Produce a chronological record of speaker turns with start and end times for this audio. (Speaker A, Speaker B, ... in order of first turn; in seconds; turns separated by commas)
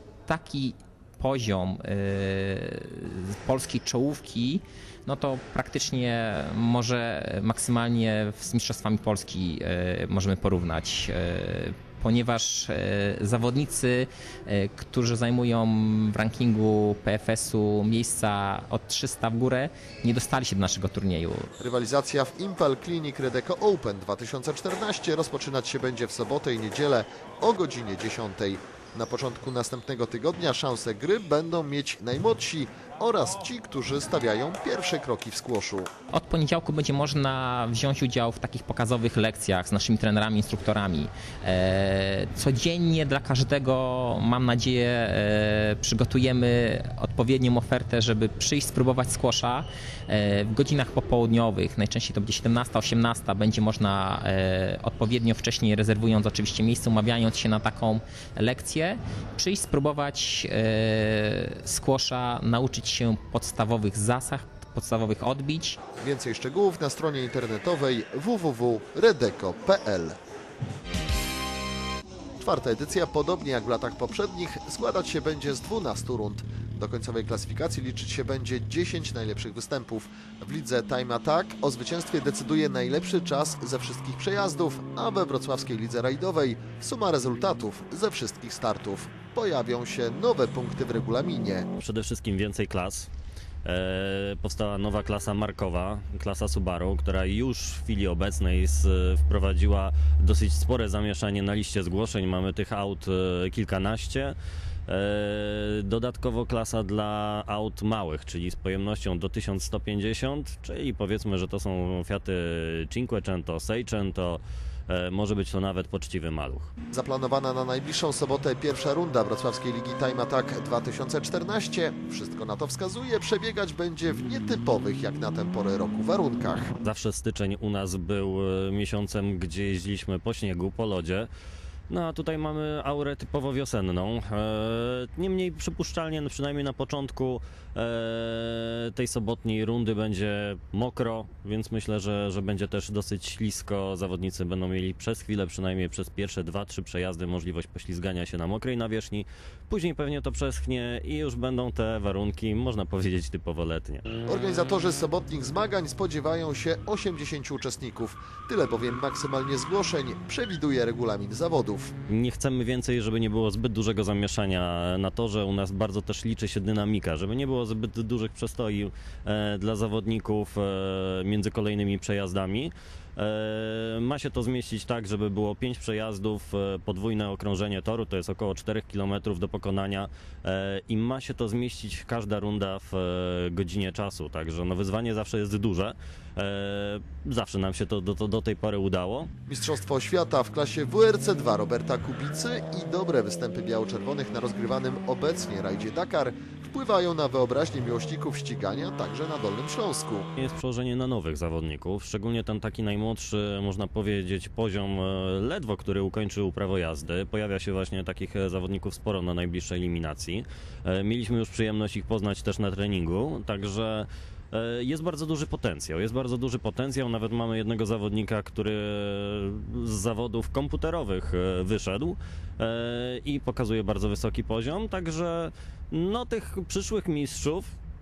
Speaker A: 0.3-21.5, Speaker B: 21.6-35.9, Speaker A: 36.1-65.8, Speaker B: 66.0-70.2, Speaker B: 72.4-91.7, Speaker C: 91.8-93.1, Speaker C: 93.6-104.3, Speaker C: 104.9-116.7, Speaker B: 116.9-126.7, Speaker C: 126.8-131.3, Speaker C: 131.9-154.1, Speaker B: 154.3-161.9, Speaker C: 162.1-189.3, Speaker B: 189.5-200.3, Speaker C: 200.4-227.7